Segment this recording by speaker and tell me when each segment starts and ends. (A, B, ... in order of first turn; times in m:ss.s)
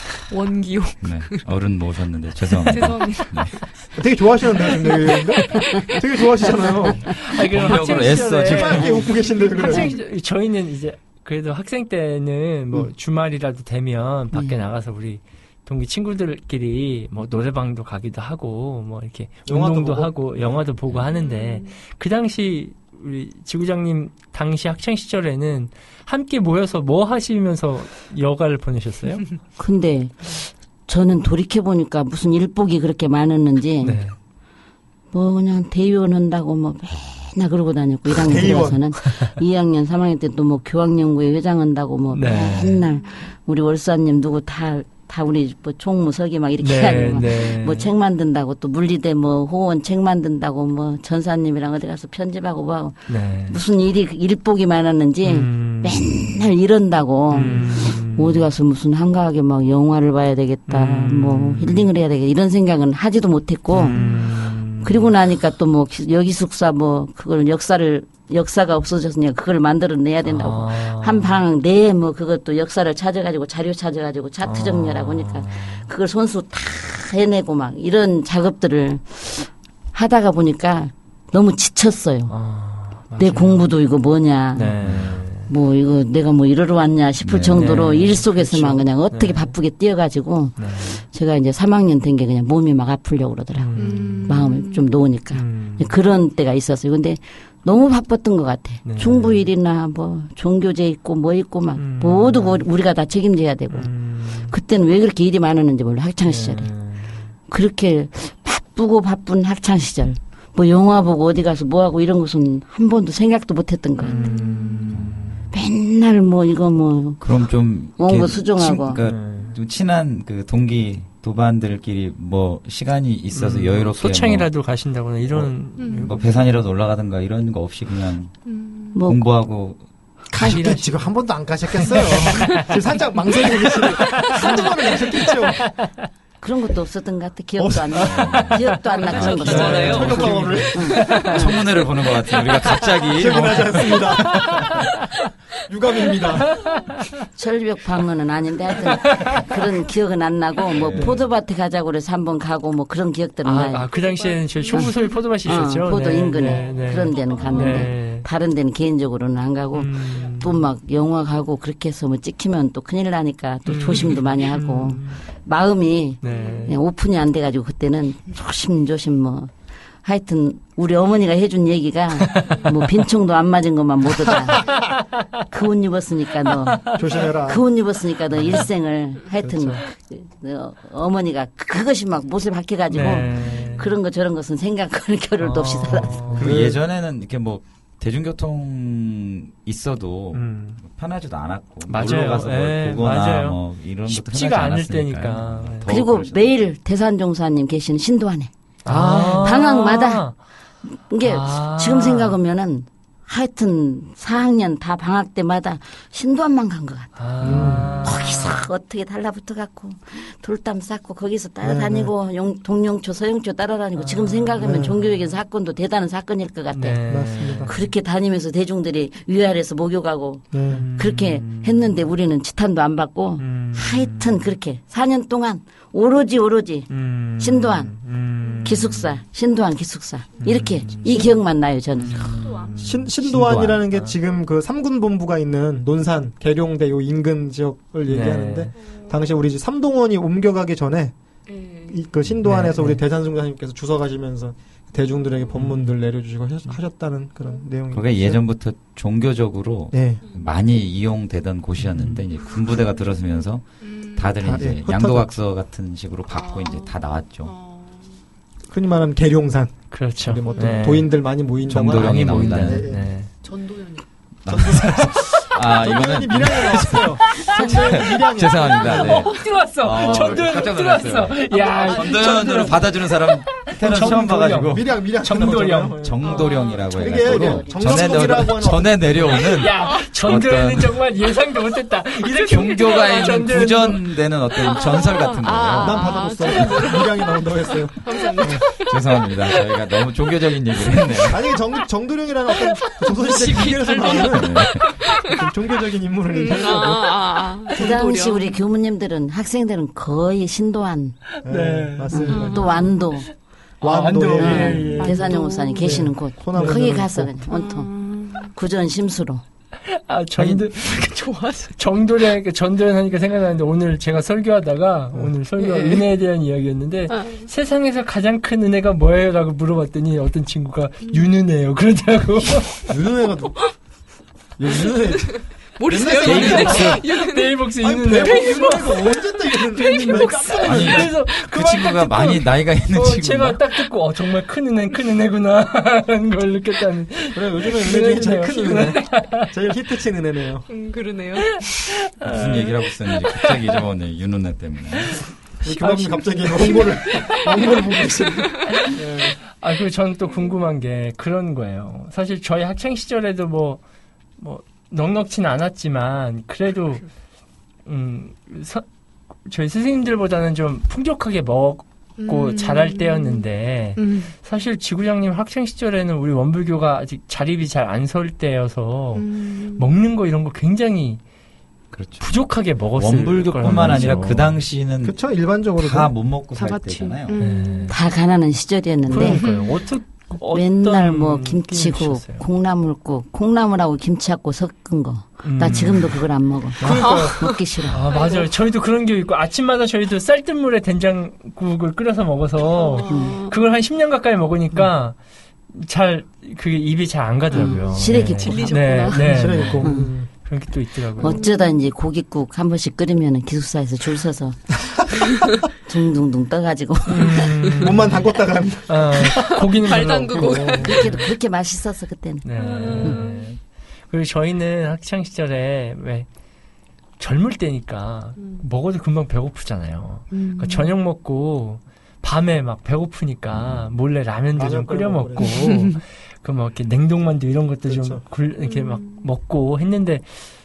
0:00.3-0:01.4 A
0:01.0-0:03.6 B
0:02.6-0:03.7 A
0:03.9-0:07.2 C
0:04.6-0:06.0 A
0:07.0-0:29.3 D
0:07.5-0:09.1 B
0:08.2-0:09.9 C
0:09.4-0:10.0 A
0:14.3-0:14.6 E
0:19.4-0:20.6 C
0:21.2-0:21.7 A
0:29.6-0:34.0 E
0:33.8-0:34.1 D
0:35.1-1:04.0 E
0:38.1-0:38.8 C
0:42.1-0:42.8 D
0:46.6-0:47.9 D
0:53.1-0:53.6 D
0:55.2-0:56.4 D
0:57.3-0:58.4 D
1:00.7-1:01.9 D
1:03.7-1:05.1 D
1:03.9-1:04.3 A
1:04.8-1:22.3 E
1:10.2-1:11.4 D
1:14.4-1:15.9 D
1:22.3-1:23.7 D
1:23.2-1:24.8 E
1:24.5-1:25.5 D
1:24.8-1:25.2 B
1:25.5-1:46.7 E
1:27.2-1:27.9 B
1:27.5-1:29.5 D
1:30.6-1:31.0 D
1:33.6-1:34.4 D
1:33.8-1:34.9 A
1:35.3-1:35.9 D
1:38.8-1:39.4 D
1:41.8-1:42.6 D
1:43.7-1:44.5 D
1:46.2-1:47.3 D
1:47.5-1:54.3 E
1:54.0-1:55.4 D
1:54.0-1:54.9 A
1:54.9-1:55.3 B
1:55.5-1:57.2 E
1:57.2-2:04.5 B
1:58.0-1:59.0 E
1:59.0-1:59.5 D
2:03.3-2:06.2 D
2:05.3-2:08.3 B
2:05.8-2:06.2 A
2:08.4-2:09.0 A
2:08.9-2:09.2 E
2:09.0-2:09.8 B
2:10.3-2:15.7 C
2:10.4-2:11.1 D
2:11.8-2:12.7 D
2:13.3-2:16.0 D
2:14.1-2:14.5 A
2:16.4-2:21.6 E
2:17.6-2:18.4 C
2:18.0-2:21.5 D
2:18.0-2:20.3 B
2:19.3-2:20.2 A
2:19.5-2:21.3 C
2:21.2-2:24.8 B
2:23.1-2:24.8 C
2:24.3-2:24.7 D
2:25.6-2:26.6 C
2:26.5-2:26.8 D
2:27.4-2:33.9 E
2:28.9-2:29.4 D
2:30.7-2:31.2 B
2:33.4-2:38.2 D
2:33.9-2:35.2 A
2:35.4-2:49.5 E
2:36.4-2:37.9 A
2:39.7-2:40.6 D
2:43.7-2:45.2 D
2:46.2-2:46.8 D
2:46.2-2:46.7 A
2:50.0-2:54.7 E
2:52.3-2:52.6 D
2:55.5-3:06.3 E
2:56.9-2:57.6 C
2:58.4-2:58.6 D
2:59.4-2:59.8 C
3:02.9-3:03.9 D
3:05.4-3:06.5 D
3:06.3-3:06.8 C
3:06.3-3:16.6 B
3:10.3-3:10.8 D
3:11.9-3:15.9 D
3:15.9-3:20.2 E
3:18.8-3:20.4 D
3:20.8-3:37.0 E
3:21.2-3:22.4 D
3:27.2-3:28.6 D
3:27.4-3:28.0 C
3:31.6-3:32.1 C
3:34.0-3:34.8 D
3:34.6-3:35.0 C
3:36.7-3:37.8 D
3:37.1-3:37.7 C
3:37.6-3:47.9 E
3:40.5-3:40.8 C
3:40.7-3:42.0 D
3:43.4-3:44.4 D
3:46.9-3:49.2 D
3:48.6-3:52.3 E
3:50.4-3:51.3 D
3:52.0-3:53.1 D
3:52.2-3:52.8 A
3:52.8-4:01.1 C
3:53.2-3:53.8 B
3:58.1-3:58.7 D
4:01.5-4:02.0 A
4:01.9-4:08.4 C
4:02.4-4:03.0 D
4:05.6-4:05.8 D
4:07.9-4:17.5 B
4:09.9-4:10.2 C
4:10.2-4:10.5 A
4:11.8-4:12.2 D
4:12.4-4:14.4 A
4:14.4-4:15.3 C
4:16.3-4:18.2 A
4:18.7-4:23.1 C
4:19.9-4:21.1 D
4:20.4-4:20.9 A
4:21.6-4:22.9 B
4:21.9-4:23.3 D
4:23.4-4:24.0 A
4:24.4-4:34.9 B
4:24.5-4:29.2 C
4:27.4-4:27.9 D
4:28.9-4:32.9 D
4:28.9-4:29.5 A
4:32.1-4:32.7 C
4:33.5-4:36.0 D
4:33.8-4:39.4 C
4:36.0-4:41.0 B
4:36.2-4:36.8 A
4:37.1-4:38.2 E
4:39.4-4:44.1 D
4:39.8-4:40.1 A
4:42.4-4:46.6 B
4:42.8-4:43.4 A
4:44.5-4:49.1 A
4:45.8-4:48.6 C
4:48.7-4:51.5 B
4:51.3-4:57.4 C
4:52.6-4:55.4 A
4:54.1-4:55.0 B
4:56.3-4:58.6 A
4:57.7-5:01.2 E
5:01.4-5:02.7 D
5:01.4-5:02.6 C
5:02.1-5:03.3 E
5:02.2-5:02.7 A
5:03.8-5:05.3 D
5:03.8-5:05.0 C
5:04.3-5:07.9 E
5:04.6-5:06.0 A
5:05.8-5:07.3 C
5:07.4-5:08.5 A
5:08.4-5:09.4 E
5:09.9-5:11.1 D
5:10.9-5:11.7 A
5:11.8-5:22.9 D
5:15.6-5:16.1 A
5:17.1-5:17.5 A
5:22.9-5:23.7 C
5:24.6-5:27.0 C
5:25.2-5:29.2 A
5:26.1-5:27.1 B
5:26.3-5:39.5 D
5:27.8-5:31.1 C
5:29.7-5:30.8 A
5:30.6-5:33.6 B
5:37.3-5:40.7 C
5:40.7-5:41.9 A
5:41.5-5:43.4 D
5:42.2-5:45.2 B
5:45.6-5:49.4 C
5:45.6-5:47.4 D
5:46.6-5:47.4 A
5:48.3-5:48.9 A
5:48.7-5:49.0 D
5:49.5-5:53.8 D
5:54.4-5:57.0 D
5:57.8-5:58.8 D
5:59.4-6:11.2 D
6:02.2-6:04.3 A
6:09.1-6:09.9 A
6:11.9-6:12.3 B
6:12.2-6:14.6 D
6:12.9-6:15.2 B
6:15.0-6:16.1 C
6:15.8-6:17.4 B
6:16.5-6:18.0 A
6:17.4-6:18.0 D
6:17.9-6:19.4 E
6:19.1-6:22.4 D
6:19.2-6:19.8 A
6:20.5-6:28.0 E
6:25.4-6:26.2 D
6:26.8-6:27.4 C
6:26.8-6:27.5 A
6:27.9-6:35.1 D
6:28.1-6:28.5 A
6:32.7-6:33.6 A
6:33.0-6:33.4 E
6:35.7-6:41.4 D
6:37.5-6:39.0 E
6:37.5-6:39.5 A
6:39.1-6:40.3 C
6:39.8-6:40.1 E
6:41.2-6:41.8 A
6:41.2-6:44.6 E
6:45.8-6:47.5 E
6:47.1-6:48.2 D
6:47.8-6:49.5 C
6:48.9-6:51.3 D
6:49.3-6:51.1 A
6:50.3-6:52.4 E
6:52.4-6:53.6 D
6:52.6-6:53.5 A
6:54.1-6:56.3 D
6:57.2-7:10.3 D
7:00.3-7:00.9 A
7:03.5-7:03.8 B
7:04.6-7:05.7 C
7:05.4-7:06.0 A
7:07.8-7:08.2 C
7:08.6-7:09.3 A